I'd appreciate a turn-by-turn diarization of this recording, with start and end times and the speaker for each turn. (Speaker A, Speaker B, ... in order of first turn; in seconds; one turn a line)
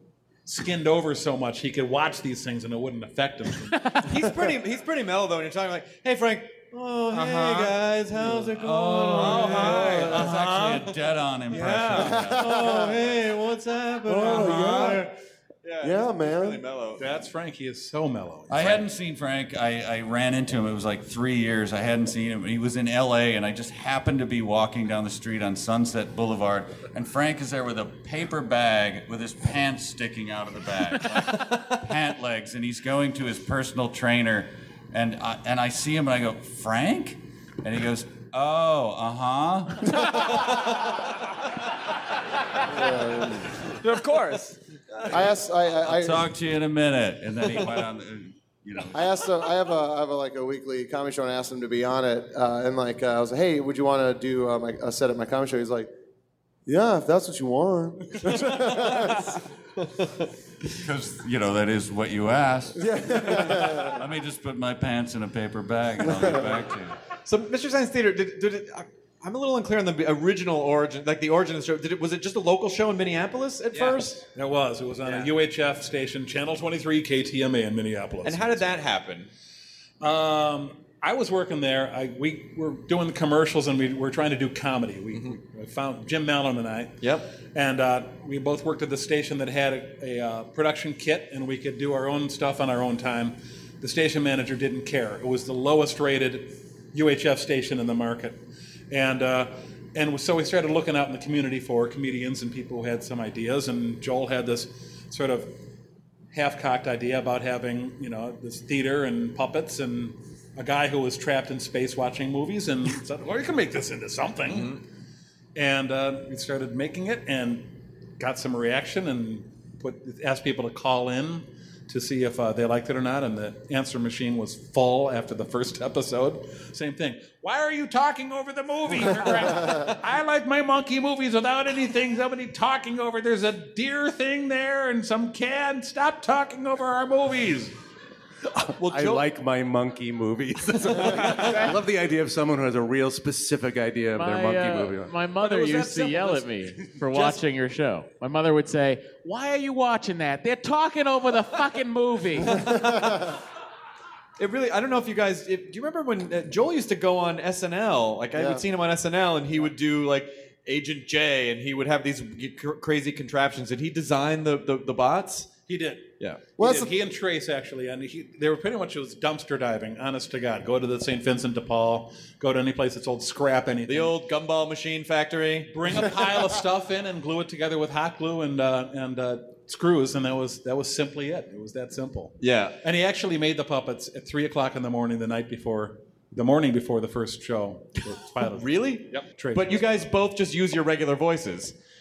Speaker A: 0.5-4.0
Speaker B: 4.0-10.4
Speaker C: 7.1-7.7
Speaker C: 8.5-12.4
Speaker A: 9.1-10.9
Speaker A: 11.5-12.2
Speaker B: 11.6-15.1
Speaker D: 12.0-13.0
Speaker D: 14.1-15.1
Speaker A: 14.2-14.9
Speaker B: 15.6-17.2
Speaker D: 15.8-16.6
Speaker A: 17.0-18.9
Speaker C: 18.5-40.0
Speaker D: 42.7-43.5
Speaker D: 45.1-46.3
Speaker C: 45.9-49.1
Speaker D: 48.9-55.9
Speaker D: 56.7-59.4
Speaker B: 58.5-59.2
Speaker C: 60.8-67.0
Speaker D: 62.8-64.0
Speaker B: 67.2-74.2
Speaker A: 74.3-78.8
Speaker B: 78.2-79.3
Speaker A: 80.0-98.4
Speaker B: 87.0-87.3
Speaker A: 98.9-105.5
Speaker A: 106.3-114.8
Speaker B: 114.5-114.8
Speaker A: 115.5-137.7
Speaker E: 138.7-147.4
Speaker B: 138.8-139.2
Speaker B: 140.8-141.6
Speaker F: 144.2-152.9
Speaker B: 154.4-165.6
Speaker D: 158.3-158.6
Speaker A: 165.7-174.2
Speaker B: 166.2-166.7
Speaker D: 166.6-166.9
Speaker B: 173.9-176.1
Speaker A: 175.7-189.9
Speaker B: 182.4-182.8
Speaker B: 188.4-191.7